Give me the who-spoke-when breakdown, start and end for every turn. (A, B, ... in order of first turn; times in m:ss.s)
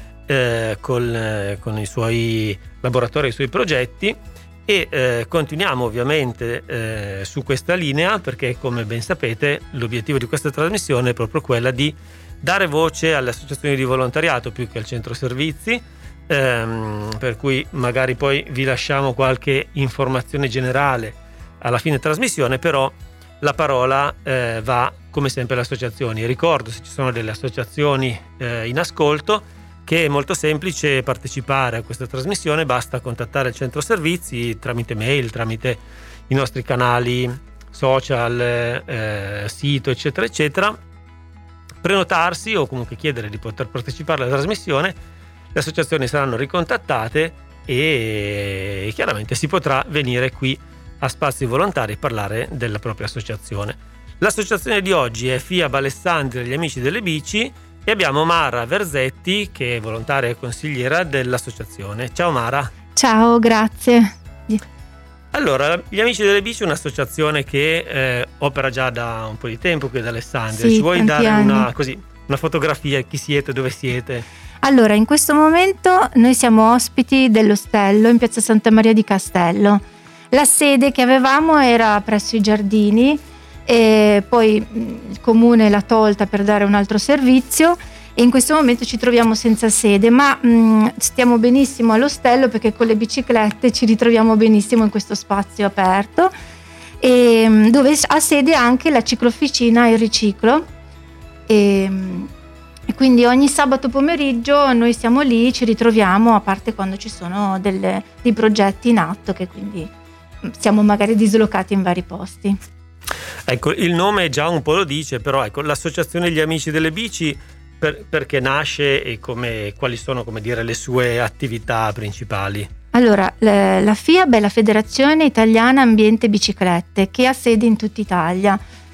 0:00.3-0:40.8 A
0:41.8-0:45.0 A
0:45.5-1:02.7 A
1:02.9-1:04.6 B
1:05.3-1:14.2 A
1:10.5-1:11.7 B
1:14.6-1:36.3 B
1:37.0-1:40.6 B
1:41.5-1:42.3 B
1:42.9-1:49.9 B
1:50.4-1:52.6 B
1:53.5-2:02.7 A
2:02.9-2:08.6 B